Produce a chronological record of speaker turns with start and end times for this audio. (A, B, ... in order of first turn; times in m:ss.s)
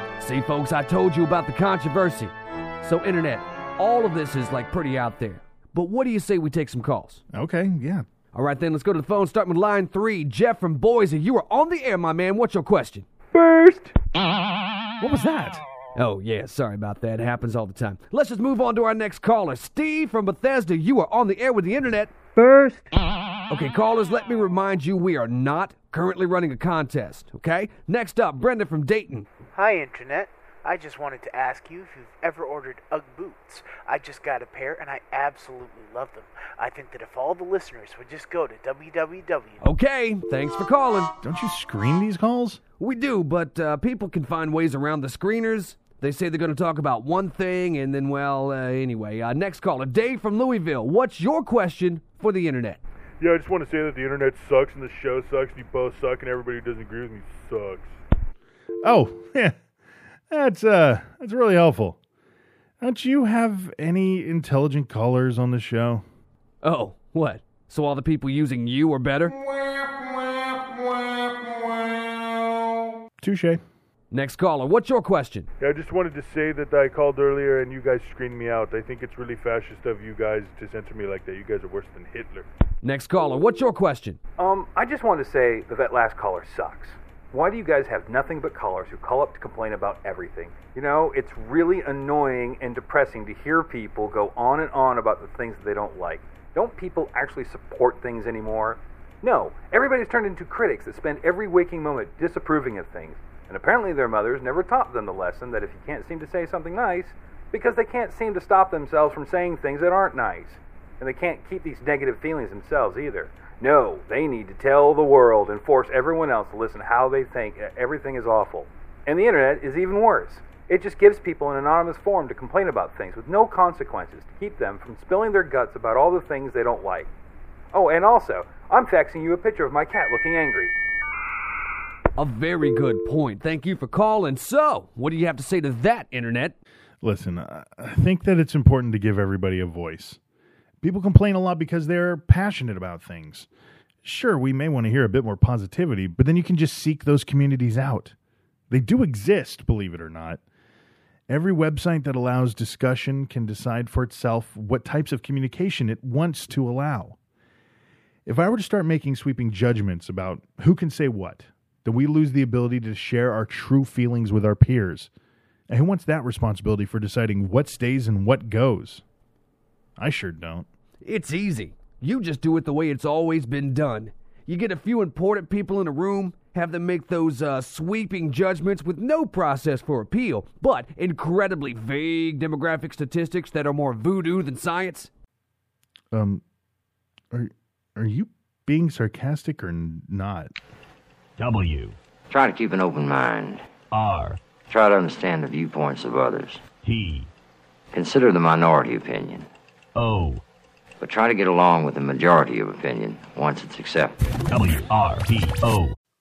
0:00.2-0:07.2 A
0:07.3-0:08.0 B
0:08.3-0:13.4 A
0:15.0-0:15.6 B
0:15.9-0:22.8 A
0:23.5-0:29.2 A
0:29.5-0:39.6 C
0:39.6-0:41.1 A
0:41.2-0:42.6 B
0:42.8-0:52.8 A
0:53.2-0:57.8 D
0:58.8-0:59.5 B
1:00.3-1:02.0 B
1:02.8-1:06.0 B
1:06.6-1:09.4 A
1:13.2-1:13.6 B
1:14.1-1:15.5 A
1:15.6-1:21.9 D
1:17.6-1:18.6 B
1:20.7-1:22.4 B
1:22.8-1:24.2 A
1:24.4-2:07.1 E
2:07.7-2:10.7 E
2:12.2-2:16.6 A
2:17.0-2:20.2 B
2:20.8-2:23.5 B
2:24.0-2:28.1 B
2:28.7-2:30.4 B
2:31.3-2:37.2 B
2:38.2-2:45.1 B
2:45.7-2:49.0 B
2:50.0-2:50.7 B
2:51.0-3:05.1 A
3:06.1-3:06.4 B
3:07.3-3:10.6 B
3:11.4-3:12.0 F
3:12.3-3:13.6 G
3:13.9-3:14.4 F
3:14.7-3:16.6 G
3:16.8-3:17.3 F
3:17.9-3:19.5 G
3:20.0-3:20.4 F
3:21.0-3:24.2 G
3:24.5-3:25.9 F